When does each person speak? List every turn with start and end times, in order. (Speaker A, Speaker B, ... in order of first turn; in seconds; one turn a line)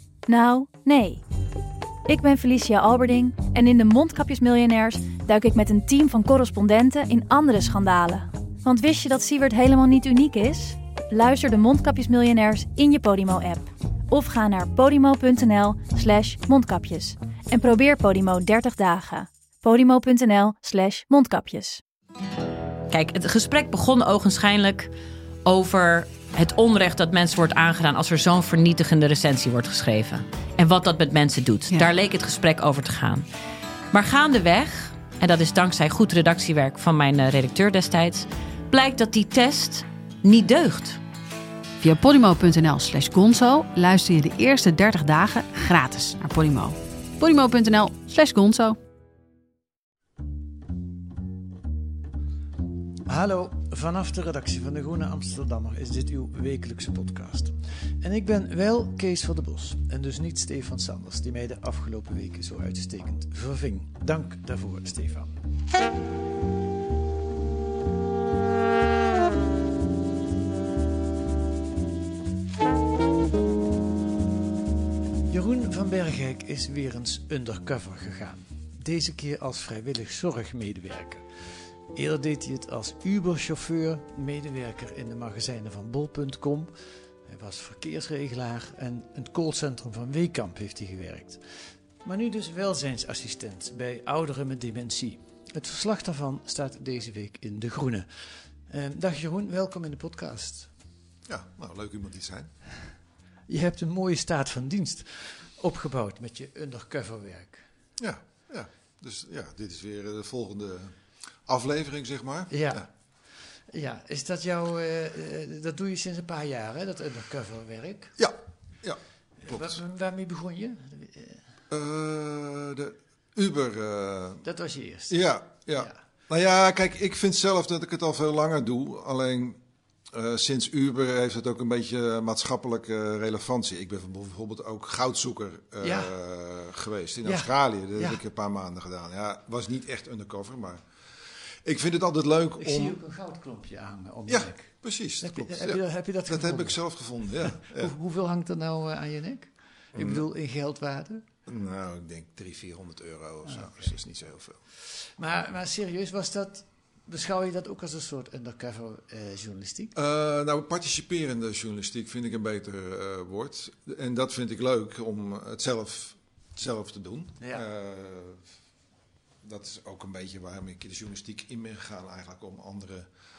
Speaker A: 0.3-1.2
Speaker A: 2.1-21.8
Speaker B: 22.9-24.9
Speaker B: 25.4-33.2
Speaker B: 33.9-41.0
Speaker C: 41.8-48.8
Speaker D: 53.0-65.3
Speaker D: 75.3-81.2
Speaker D: 81.9-86.7
Speaker D: 87.2-91.4
Speaker D: 92.0-100.7
Speaker E: 101.2-102.5
Speaker D: 103.5-107.7
Speaker E: 108.0-112.9
Speaker D: 112.5-112.9
Speaker D: 113.6-118.2
Speaker E: 118.2-119.8
Speaker D: 119.4-121.4
Speaker E: 121.7-124.4
Speaker D: 124.4-125.2
Speaker E: 125.1-129.6
Speaker E: 130.1-143.0
Speaker D: 135.8-136.1
Speaker D: 137.2-138.2
Speaker D: 142.6-146.8
Speaker E: 144.3-147.9
Speaker D: 147.5-151.2
Speaker E: 149.9-150.2
Speaker E: 151.4-154.6
Speaker D: 153.5-153.9
Speaker D: 154.8-159.9
Speaker E: 159.9-168.4
Speaker E: 169.4-173.1